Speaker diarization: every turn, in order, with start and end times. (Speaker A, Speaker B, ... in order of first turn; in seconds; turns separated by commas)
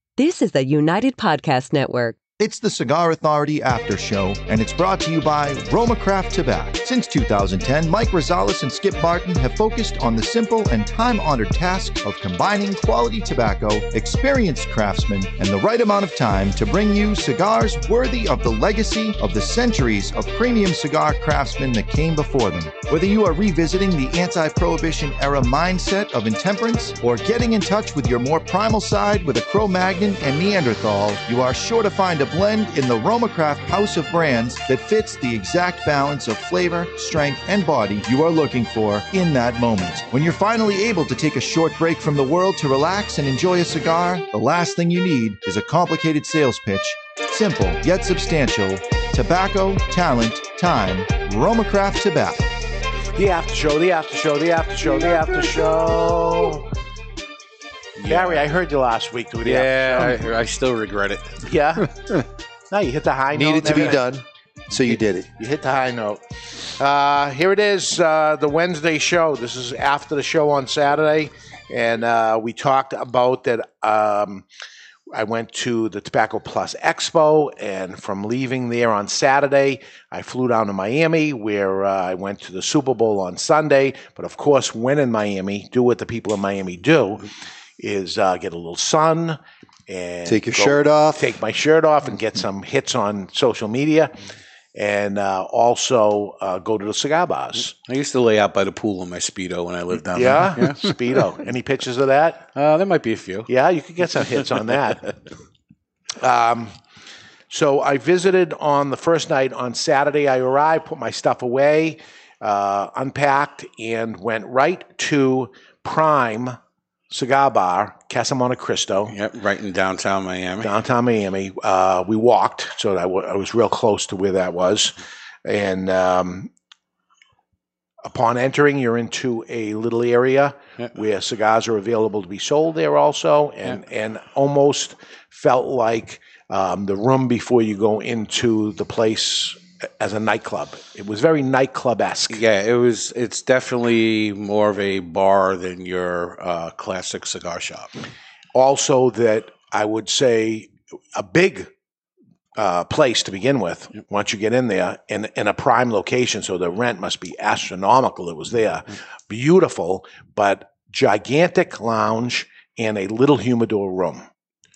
Speaker A: 0.2-2.2, Speaker B: 2.4-52.4, Speaker C: 53.2-56.7, Speaker D: 58.0-58.4, Speaker C: 58.1-60.2, Speaker D: 59.4-61.4, Speaker C: 61.4-61.9, Speaker C: 62.7-64.1, Speaker E: 63.3-65.3, Speaker C: 64.8-74.5, Speaker C: 75.1-87.2, Speaker C: 87.8-94.1, Speaker E: 90.3-91.3, Speaker C: 94.8-97.7, Speaker D: 97.7-100.9, Speaker C: 100.1-102.4, Speaker D: 102.5-103.5, Speaker C: 103.5-105.2, Speaker C: 106.2-106.7, Speaker C: 107.5-116.6, Speaker C: 117.1-119.2, Speaker D: 119.1-120.7, Speaker C: 120.6-126.5, Speaker C: 128.1-142.4, Speaker D: 142.3-147.9, Speaker C: 148.5-151.7, Speaker C: 152.6-164.3